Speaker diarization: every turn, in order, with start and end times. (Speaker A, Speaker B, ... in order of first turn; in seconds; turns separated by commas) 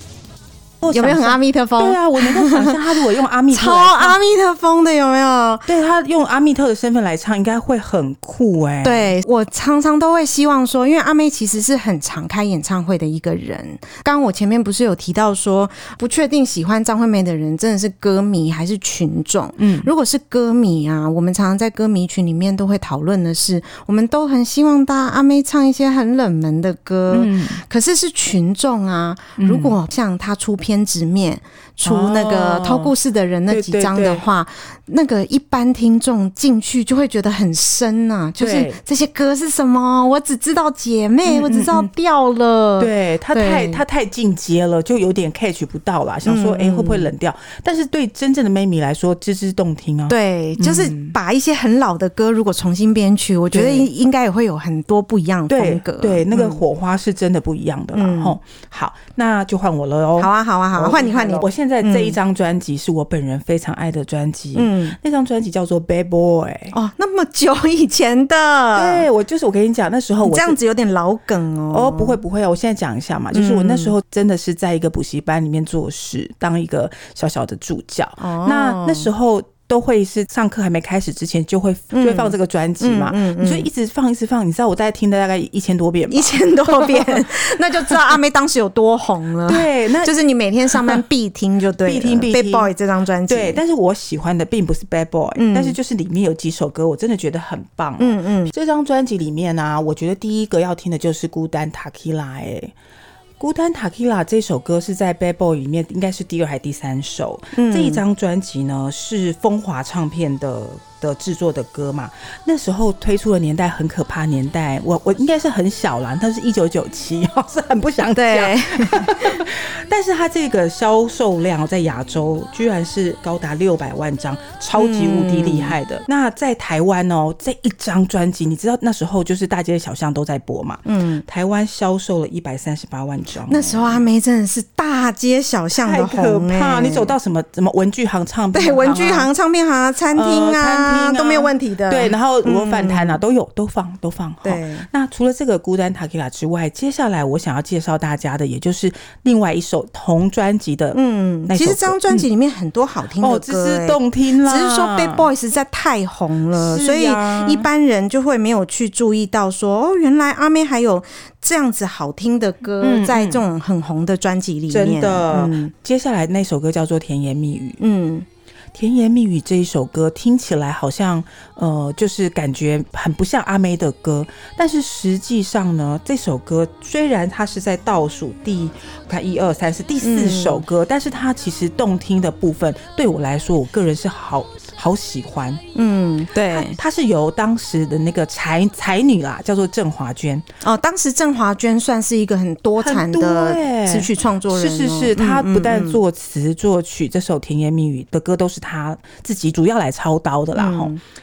Speaker A: 0.8-4.2, Speaker B: 0.9-2.8, Speaker B: 3.5-5.7, Speaker A: 5.7-9.1, Speaker B: 8.8-43.8, Speaker A: 19.6-19.9, Speaker A: 27.1-27.6, Speaker A: 29.4-29.8, Speaker A: 31.8-32.9, Speaker A: 33.5-34.2, Speaker A: 38.4-38.8, Speaker A: 41.2-41.9, Speaker A: 42.8-51.1, Speaker B: 46.2-47.1, Speaker B: 50.1-56.6, Speaker A: 53.5-53.9, Speaker A: 55.5-66.8, Speaker B: 57.9-58.4, Speaker B: 60.2-62.2, Speaker B: 64.5-65.0, Speaker B: 66.7-69.1, Speaker A: 68.8-70.6, Speaker B: 70.2-72.2, Speaker A: 71.7-88.2, Speaker B: 73.3-73.9, Speaker B: 78.2-79.1, Speaker B: 81.9-83.7, Speaker B: 86.1-93.6, Speaker A: 89.5-90.1, Speaker A: 90.7-91.0, Speaker A: 91.8-92.7, Speaker A: 93.3-102.7, Speaker B: 95.4-95.8, Speaker B: 98.0-98.5, Speaker A: 103.4-134.0, Speaker B: 107.5-108.0, Speaker B: 118.1-119.5, Speaker B: 124.8-125.8, Speaker B: 130.9-131.2, Speaker B: 133.5-137.1, Speaker A: 135.7-139.3, Speaker B: 138.5-143.2, Speaker A: 140.1-152.3, Speaker B: 144.4-144.9, Speaker B: 150.9-165.7, Speaker A: 153.2-155.3, Speaker A: 156.6-157.7, Speaker A: 162.8-163.4, Speaker A: 164.7-167.8, Speaker B: 167.8-168.3, Speaker A: 168.7-185.6, Speaker B: 180.0-180.6, Speaker B: 185.8-186.8, Speaker A: 186.5-190.4, Speaker B: 190.6-196.0, Speaker A: 192.8-200.9, Speaker B: 200.6-201.0